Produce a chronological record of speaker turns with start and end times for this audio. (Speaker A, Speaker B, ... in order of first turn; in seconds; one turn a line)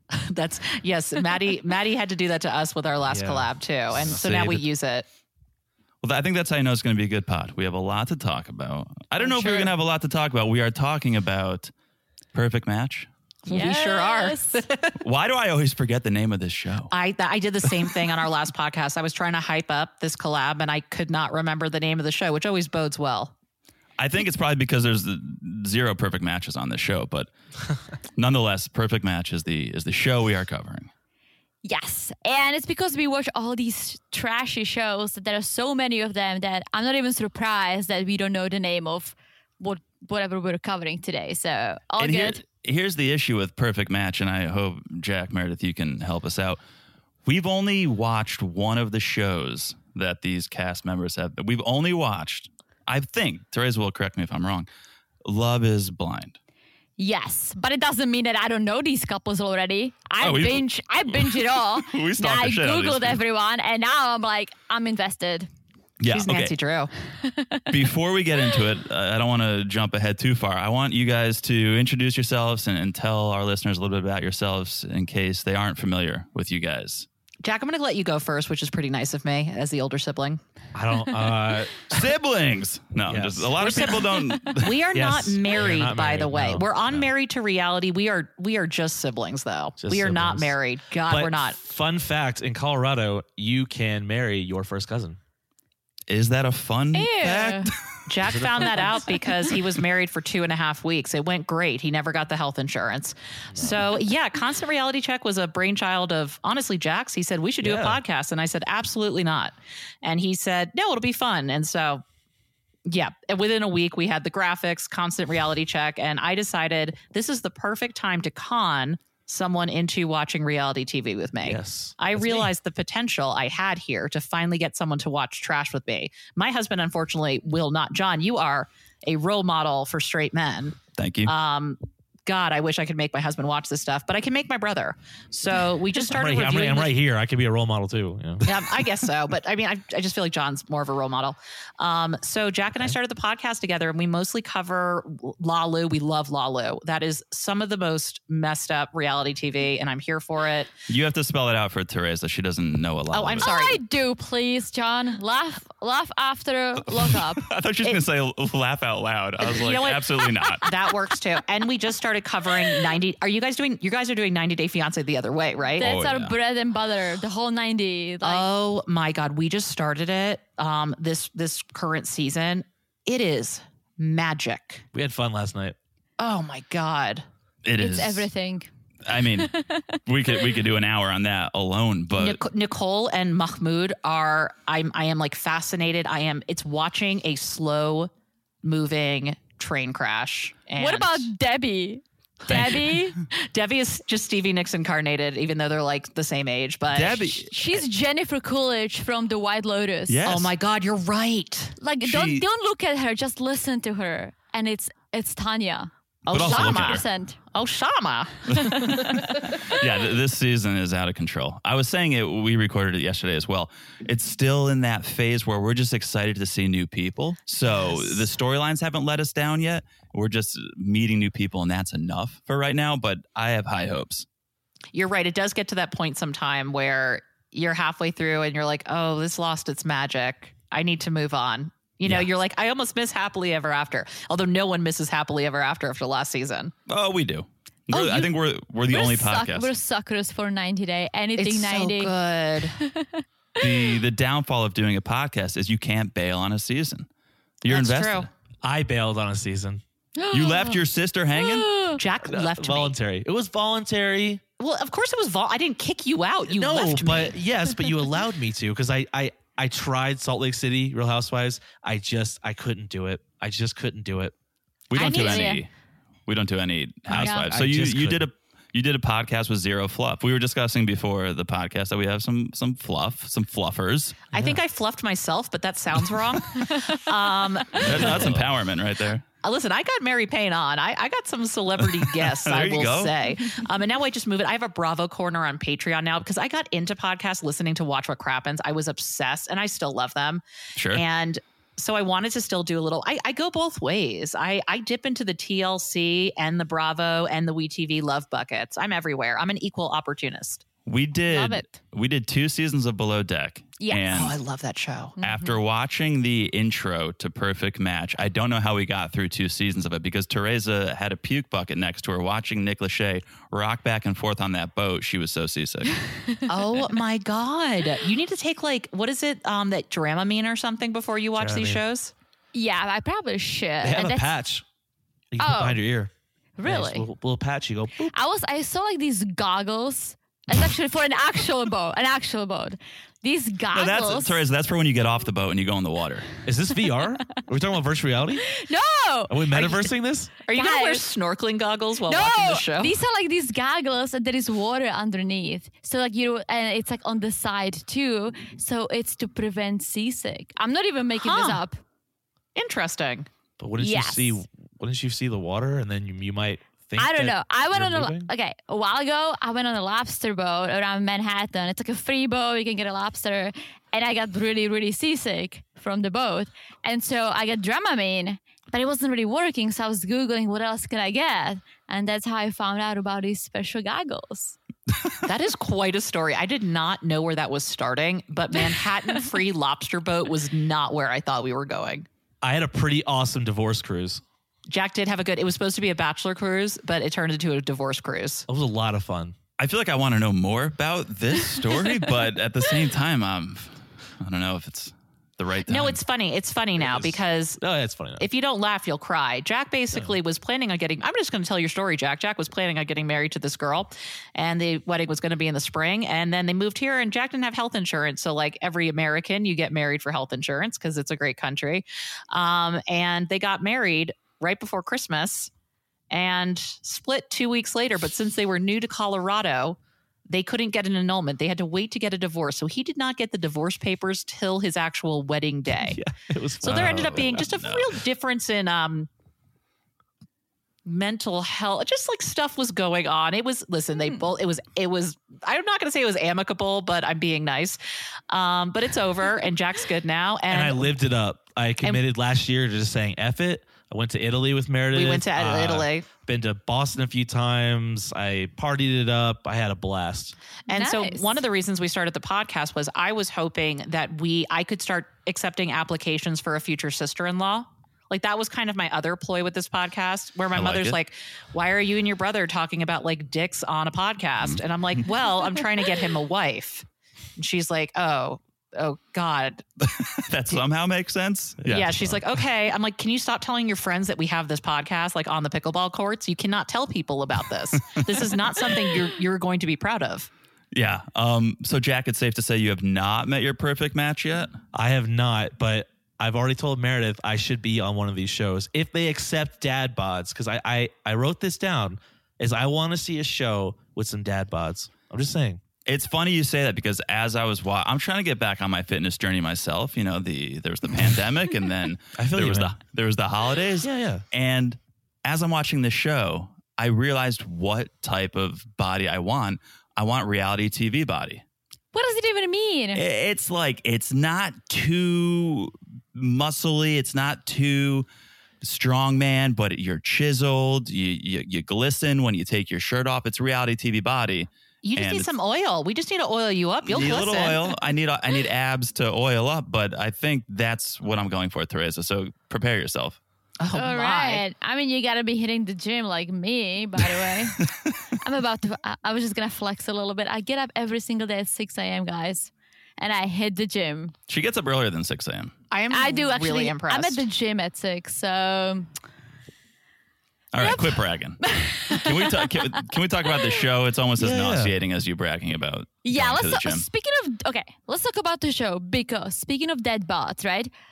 Speaker A: 0.1-5.0
Speaker B: 3.1-4.6
Speaker C: 4.0-4.3
Speaker C: 6.0-11.7
Speaker D: 9.4-9.7
Speaker C: 12.3-13.1
Speaker A: 13.4-15.0
Speaker D: 13.5-14.6
Speaker C: 15.0-16.9
Speaker A: 16.9-23.3
Speaker C: 24.0-27.3
Speaker C: 28.1-30.9
Speaker D: 31.6-42.4
Speaker C: 42.0-46.6
Speaker C: 47.2-54.7
Speaker C: 55.2-56.4
Speaker D: 57.0-65.5
Speaker C: 60.2-63.2
Speaker C: 66.0-66.5
Speaker A: 66.1-66.9
Speaker D: 67.2-67.7
Speaker C: 67.7-77.1
Speaker A: 77.4-80.4
Speaker B: 80.7-82.1
Speaker C: 81.9-84.8
Speaker B: 83.0-83.9
Speaker A: 83.6-91.6
Speaker B: 84.9-87.1
Speaker B: 89.8-90.5
Speaker B: 91.1-95.2
Speaker C: 96.1-98.0
Speaker D: 96.9-97.7
Speaker A: 98.1-112.0
Speaker B: 98.3-99.0
Speaker B: 107.6-108.0
Speaker A: 112.8-136.9
Speaker B: 121.4-122.5
Speaker C: 131.0-131.3
Speaker B: 136.0-138.6
Speaker A: 138.4-150.7
Speaker C: 150.9-153.5
Speaker A: 153.1-153.8
Speaker D: 153.4-157.5
Speaker C: 156.9-160.7
Speaker A: 159.5-165.9
Speaker D: 165.8-168.4
Speaker C: 165.8-166.3
Speaker A: 168.2-174.8
Speaker B: 174.9-175.8
Speaker A: 176.2-177.2
Speaker C: 177.6-178.3
Speaker D: 177.8-178.7
Speaker C: 179.0-179.5
Speaker D: 179.4-180.0
Speaker C: 180.1-182.4
Speaker A: 182.2-188.1
Speaker A: 188.6-191.3
Speaker D: 190.8-193.2
Speaker C: 192.5-193.0
Speaker A: 192.5-197.2
Speaker C: 196.9-197.8
Speaker D: 197.3-200.2
Speaker C: 200.1-200.5
Speaker A: 200.2-201.7
Speaker D: 201.8-207.4
Speaker C: 202.0-202.4
Speaker A: 206.2-209.1
Speaker C: 206.3-207.0
Speaker C: 208.5-208.8
Speaker D: 208.7-209.4
Speaker C: 209.4-224.2
Speaker A: 217.6-218.2
Speaker A: 224.9-236.7
Speaker C: 236.9-239.7
Speaker D: 237.9-238.3
Speaker D: 238.9-242.1
Speaker A: 241.3-242.8
Speaker D: 242.8-243.7
Speaker C: 243.6-247.1
Speaker C: 247.6-248.3
Speaker A: 247.7-248.3
Speaker B: 248.6-249.8
Speaker D: 250.2-250.8
Speaker C: 250.3-251.7
Speaker D: 251.3-252.0
Speaker A: 252.0-252.9
Speaker B: 252.2-254.4
Speaker A: 254.6-257.4
Speaker B: 256.5-264.3
Speaker C: 264.9-265.7
Speaker A: 264.9-265.6
Speaker D: 264.9-265.6
Speaker C: 266.3-274.2
Speaker B: 267.1-268.2
Speaker D: 267.1-267.5
Speaker A: 274.3-278.4
Speaker C: 277.7-279.2
Speaker B: 277.8-278.4
Speaker A: 279.4-300.6
Speaker C: 281.8-283.1
Speaker C: 290.8-291.0
Speaker C: 300.9-304.4
Speaker D: 301.3-301.8
Speaker D: 303.8-304.1
Speaker A: 304.1-305.1
Speaker D: 305.2-305.5
Speaker C: 305.2-315.9
Speaker D: 316.3-316.8
Speaker A: 316.5-322.1
Speaker B: 321.4-321.8
Speaker D: 322.5-324.3
Speaker B: 323.8-324.6
Speaker B: 325.3-326.1
Speaker D: 325.4-325.8
Speaker D: 326.6-327.1
Speaker B: 326.6-328.1
Speaker D: 328.1-334.4
Speaker C: 333.7-336.3
Speaker B: 336.4-338.5
Speaker D: 338.4-339.8
Speaker B: 339.3-340.3
Speaker A: 339.5-339.9
Speaker A: 340.4-343.0
Speaker D: 340.5-341.1
Speaker D: 342.1-351.8
Speaker A: 351.2-351.6
Speaker A: 352.6-353.3
Speaker B: 353.6-358.3
Speaker D: 353.8-354.4
Speaker D: 357.0-374.6
Speaker A: 375.2-382.1
Speaker B: 382.4-384.2
Speaker A: 384.7-388.4
Speaker B: 388.5-389.3
Speaker C: 389.6-396.0
Speaker A: 395.7-397.6
Speaker B: 396.8-398.2
Speaker A: 398.2-415.5
Speaker A: 416.1-426.0
Speaker B: 425.8-427.4
Speaker A: 426.6-429.1
Speaker C: 426.6-428.0
Speaker A: 430.8-440.9
Speaker B: 440.5-450.4
Speaker A: 444.9-446.1
Speaker D: 450.7-451.4
Speaker A: 450.7-466.9
Speaker C: 460.5-461.0
Speaker A: 467.4-469.6
Speaker C: 469.8-472.3
Speaker A: 471.7-480.3
Speaker C: 477.7-478.3
Speaker C: 480.7-484.5
Speaker B: 484.7-495.6
Speaker C: 495.9-511.4
Speaker B: 502.2-502.7
Speaker B: 503.8-504.2
Speaker D: 511.9-513.0
Speaker C: 512.9-518.1
Speaker C: 518.6-525.3
Speaker A: 524.8-527.7
Speaker C: 526.8-533.2
Speaker A: 533.6-534.4
Speaker D: 533.7-537.6
Speaker D: 538.2-544.1
Speaker C: 544.3-545.5
Speaker A: 545.7-547.2
Speaker D: 545.9-548.9
Speaker C: 550.5-556.8
Speaker D: 550.6-552.5
Speaker B: 554.2-554.7
Speaker D: 556.0-560.7